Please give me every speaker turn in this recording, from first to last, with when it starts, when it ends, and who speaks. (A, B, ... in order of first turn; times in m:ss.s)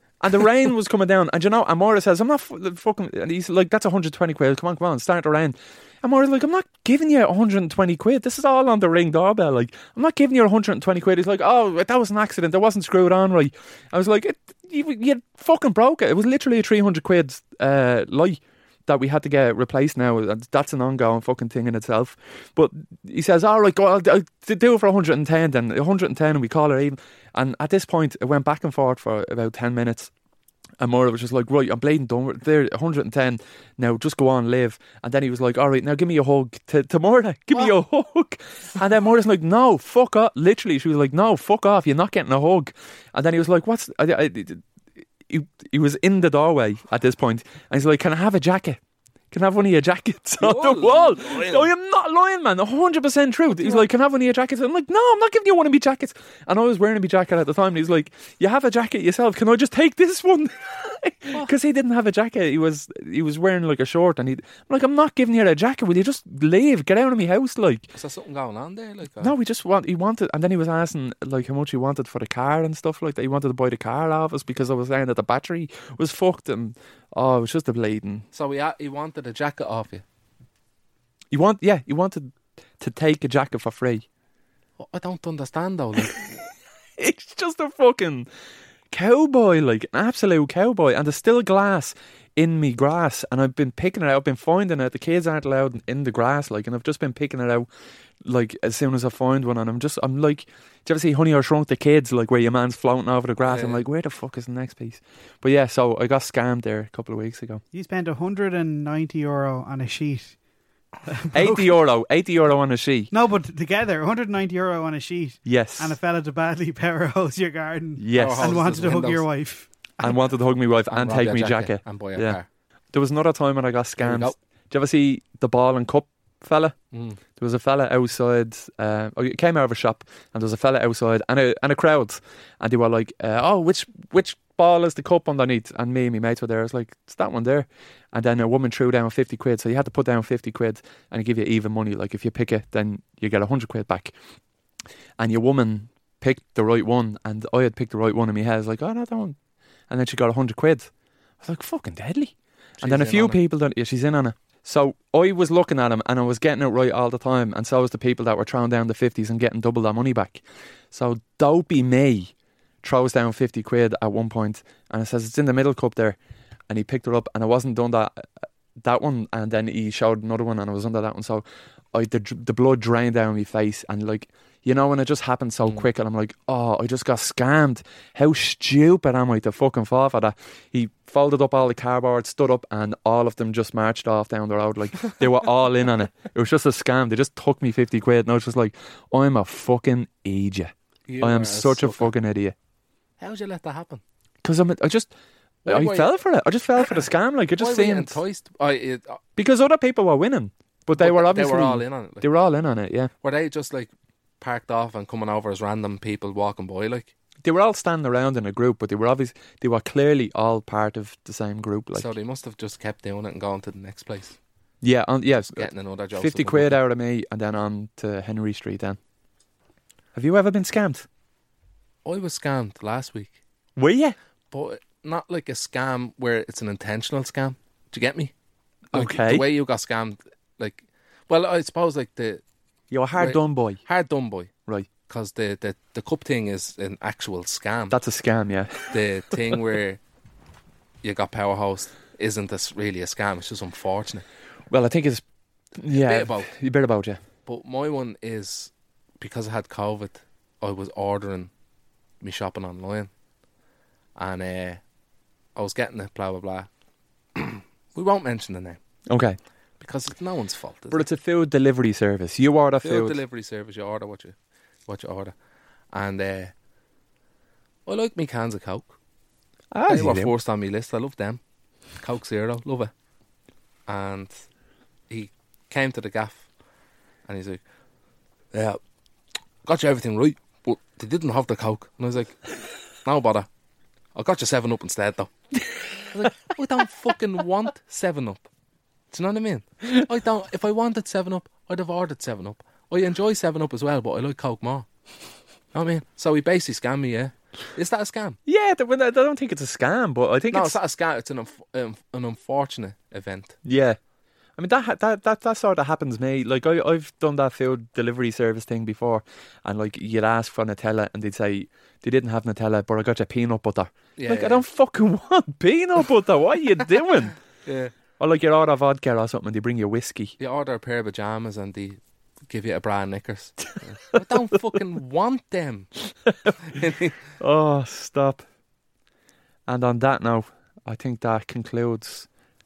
0:00.2-0:30.1 A
0:30.8-0:44.6 A
0:45.3-0:48.8 A
0:49.3-1:07.9 A
0:50.4-0:51.7 B
1:08.0-1:09.3 B
1:09.2-1:18.2 A
1:18.3-1:20.0 B
1:21.3-1:24.0 A
1:24.8-1:26.5 B
1:27.0-1:28.3 A
1:28.9-1:37.7 A
1:38.2-1:47.6 A
1:43.5-1:43.8 B
1:47.7-1:50.4 C
1:51.1-1:51.7 C
1:51.3-1:53.1 A
1:53.1-2:00.2 C
1:55.4-1:56.0 A
1:58.0-1:58.5 A
1:58.1-1:59.2 B
2:00.0-2:02.4 A
2:00.9-2:02.5 B
2:02.9-2:06.8 A
2:04.0-2:04.4 B
2:06.9-2:07.2 B
2:07.4-2:24.1 A
2:25.2-2:29.4 A
2:29.9-2:30.9 A
2:31.4-2:46.2 A
2:32.8-2:33.4 B
2:46.7-3:12.5 A
2:55.6-2:55.9 B
3:11.1-3:12.1 B
3:13.2-3:14.0 B
3:14.4-3:15.1 A
3:15.6-3:16.1 B
3:15.6-3:18.2 A
3:17.6-3:19.2 B
3:19.4-3:23.1 A
3:21.0-3:22.3 B
3:23.2-3:27.1 B
3:27.4-3:32.1 A
3:31.9-3:34.4 B
3:34.8-3:39.0 A
3:35.5-3:36.8 B
3:40.1-3:41.1 A
3:42.0-3:43.4 B
3:43.8-3:44.1 A
3:44.5-3:48.3 B
3:48.9-3:49.5 A
3:48.9-3:52.4 B
3:52.9-3:53.8 A
3:53.2-3:54.5 B
3:55.1-3:58.0 B
3:57.9-3:59.6 A
3:58.9-4:00.0 B
4:01.0-4:04.2 B
4:04.7-4:05.2 A
4:05.8-4:07.2 A
4:05.9-4:06.5 B
4:07.4-4:11.5 B
4:12.2-4:13.1 B
4:14.2-4:14.8 B
4:15.6-4:16.7 B
4:17.3-4:18.8 B
4:19.1-4:19.4 A
4:19.8-4:21.0 B
4:20.9-4:23.2 A
4:22.8-4:24.4 B
4:24.9-4:25.3 B
4:25.9-4:26.5 B
4:27.8-4:29.0 B
4:29.7-4:30.3 A
4:29.9-4:31.4 B
4:32.0-4:32.9 B
4:33.9-4:34.4 B
4:35.1-4:36.5 B
4:37.3-4:37.6 B
4:38.5-4:38.8 B
4:39.6-4:42.4 B
4:43.0-4:43.5 B
4:44.1-4:45.3 B
4:46.1-4:48.5 B
4:49.1-4:54.9 B
4:55.7-4:58.4 B
4:58.4-5:00.8 A
5:00.5-5:03.6 B
5:03.6-5:04.0 A
5:04.6-5:17.4 A
5:14.2-5:14.6 B
5:17.6-5:17.9 B
5:18.2-5:20.3 A
5:20.4-5:25.9 B
5:24.1-5:24.4 A
5:26.6-5:27.2 B
5:27.4-5:28.4 A
5:29.7-5:32.3 A